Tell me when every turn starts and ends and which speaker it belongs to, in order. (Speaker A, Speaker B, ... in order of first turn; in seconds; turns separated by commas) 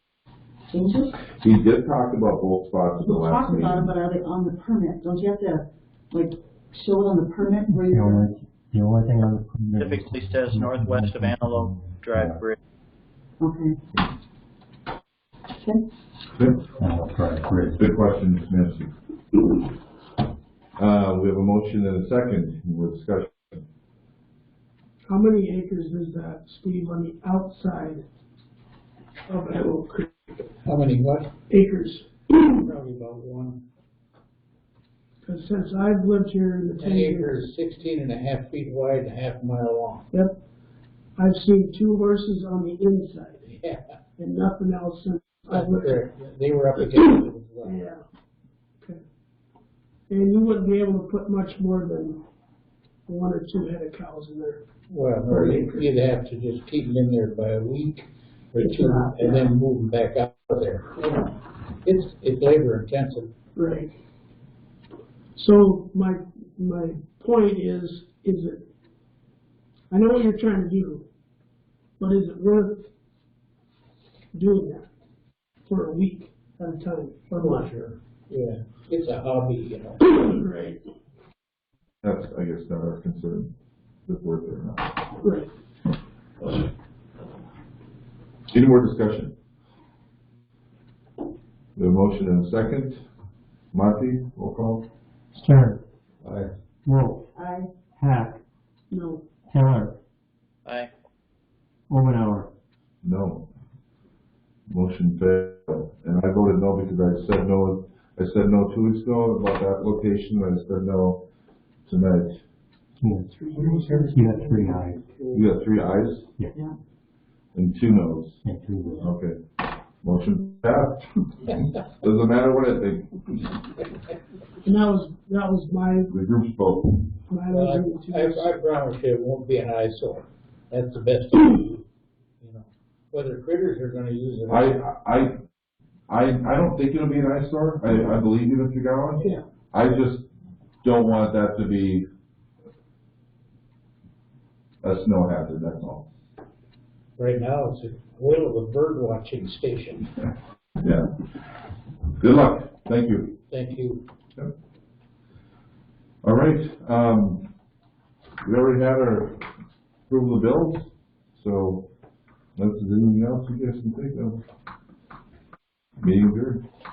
Speaker A: 0.7-1.2, Speaker B: 1.4-3.9, Speaker A: 3.0-8.3, Speaker C: 7.7-12.4, Speaker D: 9.8-12.6, Speaker A: 13.4-13.8, Speaker A: 15.5-15.8, Speaker C: 16.8-17.8, Speaker B: 17.8-18.9, Speaker B: 20.8-23.6, Speaker E: 25.1-28.0, Speaker E: 29.3-30.1, Speaker F: 30.6-31.3, Speaker E: 31.5-32.6, Speaker F: 32.6-33.6, Speaker E: 35.2-37.4, Speaker F: 36.8-40.1, Speaker E: 41.2-43.4, Speaker F: 43.4-43.8, Speaker E: 44.2-46.0, Speaker F: 45.5-47.8, Speaker E: 47.6-48.0, Speaker E: 50.1-52.2, Speaker E: 53.1-54.6, Speaker F: 54.9-61.2, Speaker E: 58.6-59.4, Speaker F: 61.8-63.3, Speaker E: 63.5-63.9, Speaker E: 65.3-68.6, Speaker E: 69.9-71.0, Speaker E: 72.0-72.9, Speaker E: 74.3-74.9, Speaker E: 75.7-77.7, Speaker F: 77.4-80.0, Speaker E: 80.0-80.8, Speaker B: 82.0-83.5, Speaker B: 84.0-85.0, Speaker E: 85.2-85.5, Speaker B: 88.5-89.3, Speaker B: 91.8-93.0, Speaker B: 93.7-94.9, Speaker C: 95.3-95.8, Speaker B: 96.2-96.5, Speaker C: 96.8-97.3, Speaker A: 97.3-97.7, Speaker C: 98.0-98.4, Speaker E: 98.9-99.3, Speaker C: 99.5-100.0, Speaker C: 101.9-102.5, Speaker B: 103.0-103.5, Speaker B: 104.7-111.3, Speaker B: 111.8-112.4, Speaker C: 113.0-115.1, Speaker E: 113.3-115.4, Speaker B: 115.3-116.3, Speaker B: 117.5-118.4, Speaker C: 118.4-119.1, Speaker B: 118.9-119.4, Speaker B: 120.0-123.3, Speaker F: 121.5-121.8, Speaker E: 124.6-126.1, Speaker B: 126.1-127.1, Speaker E: 127.3-128.5, Speaker F: 127.5-131.8, Speaker F: 132.4-134.8, Speaker B: 134.5-135.4, Speaker B: 136.1-140.3, Speaker B: 140.8-142.1, Speaker B: 144.8-146.1, Speaker F: 147.2-150.1, Speaker B: 150.8-151.1, Speaker B: 152.2-153.4, Speaker F: 153.5-154.0, Speaker B: 156.2-157.5, Speaker B: 158.4-159.5, Speaker B: 160.1-161.9, Speaker B: 162.6-164.4, Speaker B: 166.0-166.6